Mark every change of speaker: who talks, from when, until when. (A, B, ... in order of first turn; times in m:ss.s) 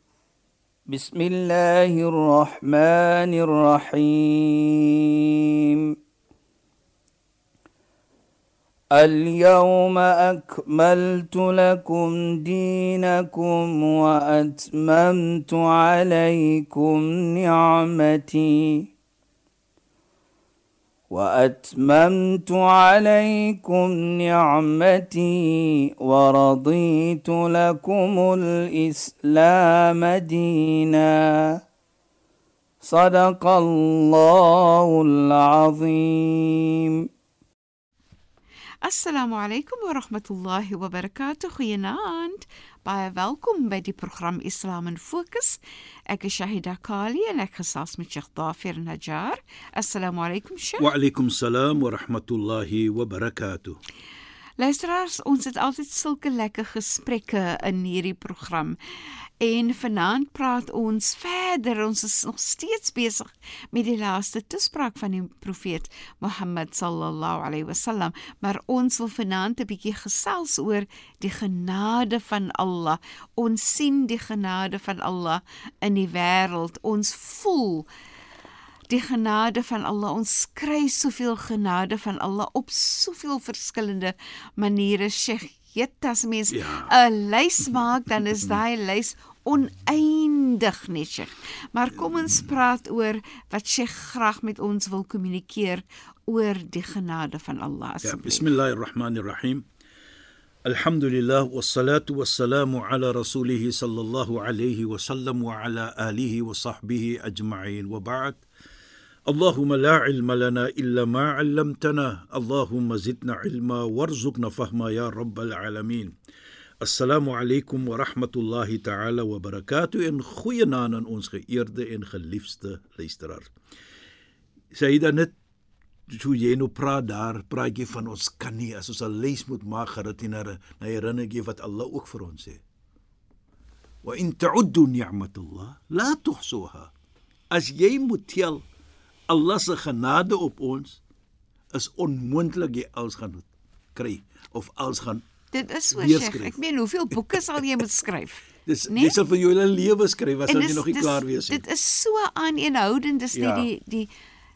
0:00.9-0:06.0 A
0:08.9-0:18.9 A
0:21.1-0:31.6 A
0:32.8-0:37.0 A
0:38.8-0:50.9 B
0:50.8-0:53.8 C
0:54.6-0:58.8 B
0:59.4-1:17.9 B
1:18.9-1:38.5 B
1:26.5-1:26.9 C
1:32.0-1:32.5 C
1:38.0-1:39.6 C
1:40.7-1:48.4 C
1:49.3-1:56.2 C
1:56.8-2:03.5 C
2:04.7-2:05.4 C
2:06.1-2:12.6 C
2:14.0-2:16.9 C
2:17.5-2:18.7 C
2:19.3-2:21.0 C
2:21.7-2:25.2 C
2:25.5-2:29.2 B
2:25.9-2:26.6 C
2:28.6-2:31.6 C
2:30.5-2:34.1 B
2:33.3-2:33.7 C